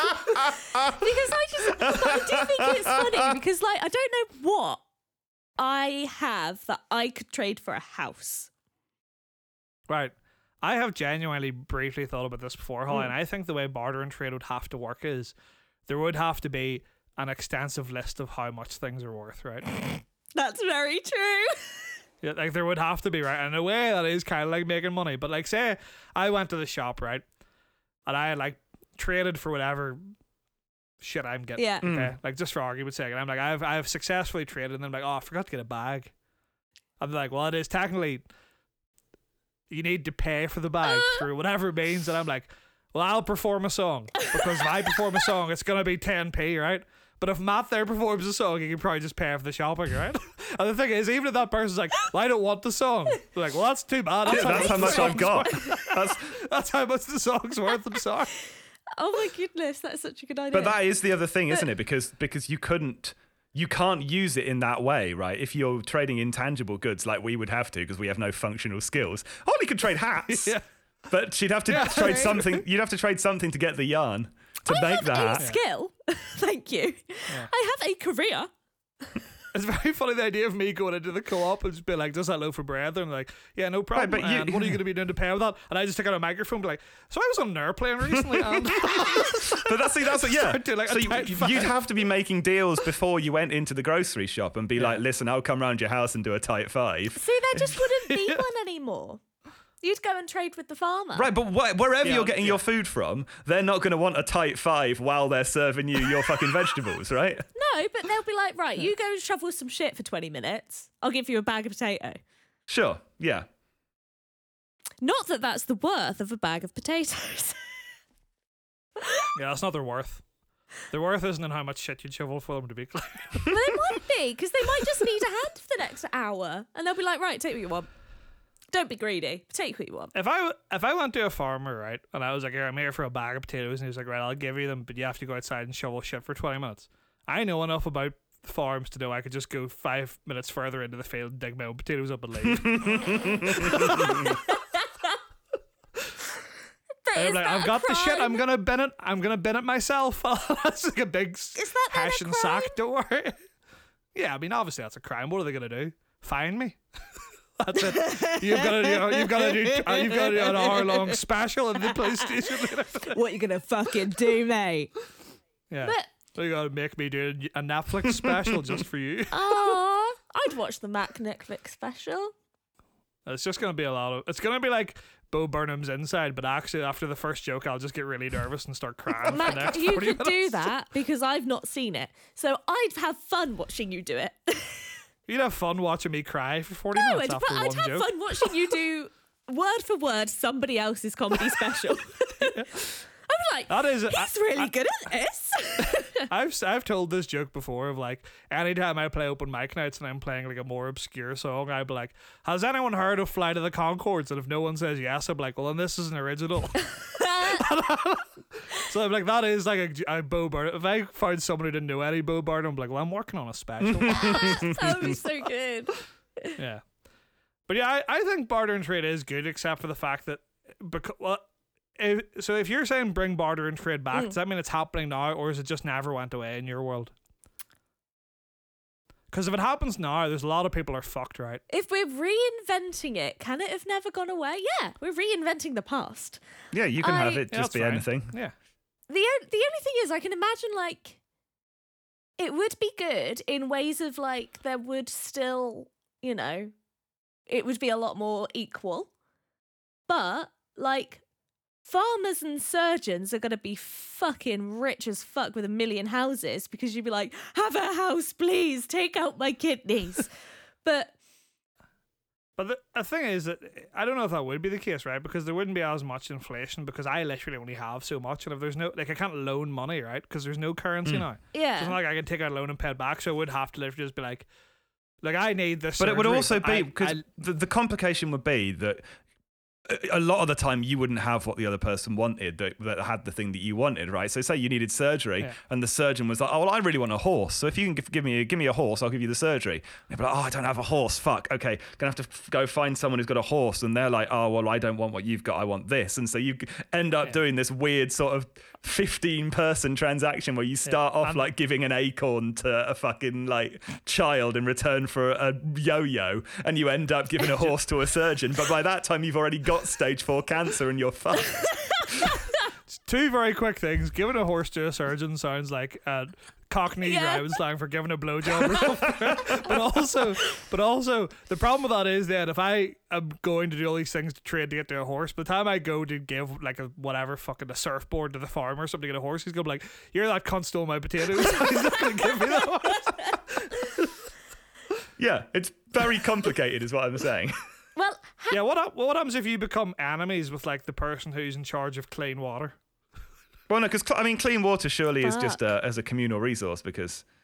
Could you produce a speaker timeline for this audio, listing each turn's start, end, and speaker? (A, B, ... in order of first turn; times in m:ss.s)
0:00.8-0:04.8 A
0:01.8-0:03.0 B
0:05.6-0:08.5 A
0:09.9-0:15.3 C
0:15.9-0:19.9 C
0:20.4-0:21.9 A
0:22.2-0:27.2 C
0:28.1-0:30.0 C
0:31.0-0:36.1 C
0:31.6-0:31.8 A
0:31.8-0:32.1 B
0:37.0-0:38.2 C
0:39.7-0:58.4 C
0:40.8-0:41.2 A
0:54.3-0:55.8 A
0:54.3-0:56.3 B
0:59.0-1:00.8 A
1:00.5-1:10.6 B
1:10.3-1:10.6 C
1:11.1-1:15.5 B
1:11.7-1:12.4 A
1:11.7-1:12.6 C
1:14.7-1:18.5 A
1:19.5-1:31.8 C
1:23.9-1:24.8 B
1:28.2-1:37.7 B
1:34.8-1:35.0 C
1:37.2-1:39.2 A
1:38.0-1:38.4 C
1:39.8-1:41.3 A
1:41.2-1:47.5 B
1:42.0-1:42.6 C
1:47.6-1:52.2 A
1:52.7-1:53.5 B
1:55.0-1:57.6 A
1:59.0-1:59.3 A
1:59.3-2:00.2 C
2:00.9-2:03.7 C
2:03.5-2:07.9 A
2:08.7-2:10.1 A
2:10.1-2:24.2 C
2:22.4-2:24.3 B
2:23.7-2:25.2 A
2:27.0-2:28.4 A
2:27.1-2:33.4 C
2:31.6-2:32.7 A
2:34.2-2:36.8 C
2:37.6-2:43.2 C
2:37.8-2:41.2 A
2:42.0-2:44.9 A
2:45.7-2:49.8 C
2:45.8-2:46.1 A
2:49.3-2:52.3 A
2:53.3-3:00.7 C
2:59.3-3:05.0 A
3:05.3-3:08.5 C
3:06.9-3:16.3 A
3:12.5-3:12.9 C
3:13.7-3:14.7 C
3:15.8-3:35.1 C
3:27.0-3:27.6 A
3:33.8-3:35.2 B
3:34.1-3:36.6 A
3:36.6-3:36.8 C
3:37.7-3:41.4 C
3:42.0-3:47.1 C
3:49.3-3:51.6 C
3:51.7-3:56.4 A
3:56.7-3:58.3 B
3:57.0-3:57.4 A
3:57.5-3:58.5 C
3:59.1-4:01.2 A
4:02.4-4:06.7 A
4:07.5-4:09.1 A
4:10.1-4:11.2 A
4:11.9-4:20.3 A
4:20.8-4:21.1 A
4:22.6-4:34.5 C
4:31.5-4:32.0 A
4:35.2-4:37.2 C
4:36.0-4:39.0 B
4:39.9-5:11.8 B
5:00.9-5:01.5 C
5:13.0-5:34.1 C
5:17.0-5:17.6 A
5:35.2-5:37.6 B
5:38.0-5:38.6 A
5:38.5-5:42.8 C
5:43.7-5:47.2 B
5:45.2-5:45.6 A